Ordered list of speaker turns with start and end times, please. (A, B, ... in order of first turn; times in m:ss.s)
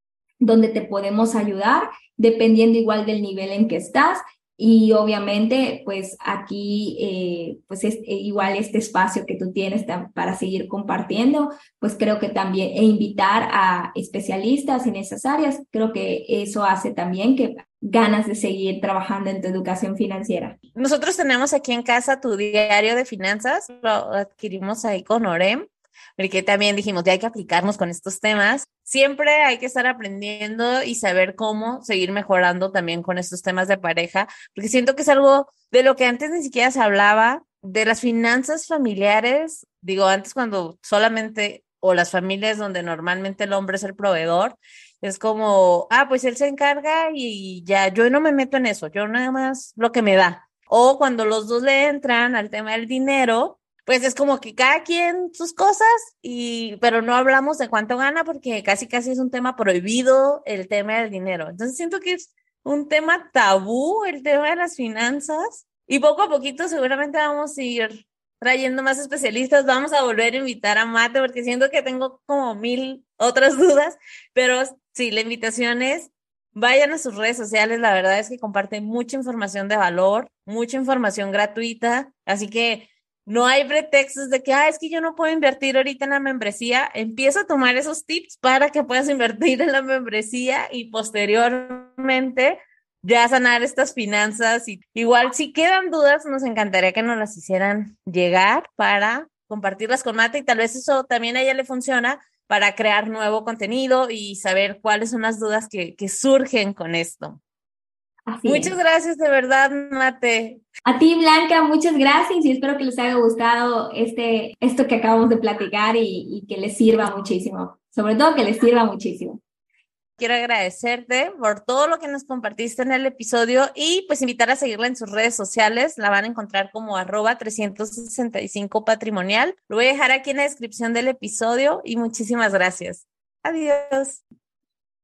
0:00.4-0:20.6 A
0:20.7-1:47.4 B
1:48.3-1:48.7 A
1:48.4-1:50.6 B
1:50.8-1:59.4 A
2:00.2-2:14.2 B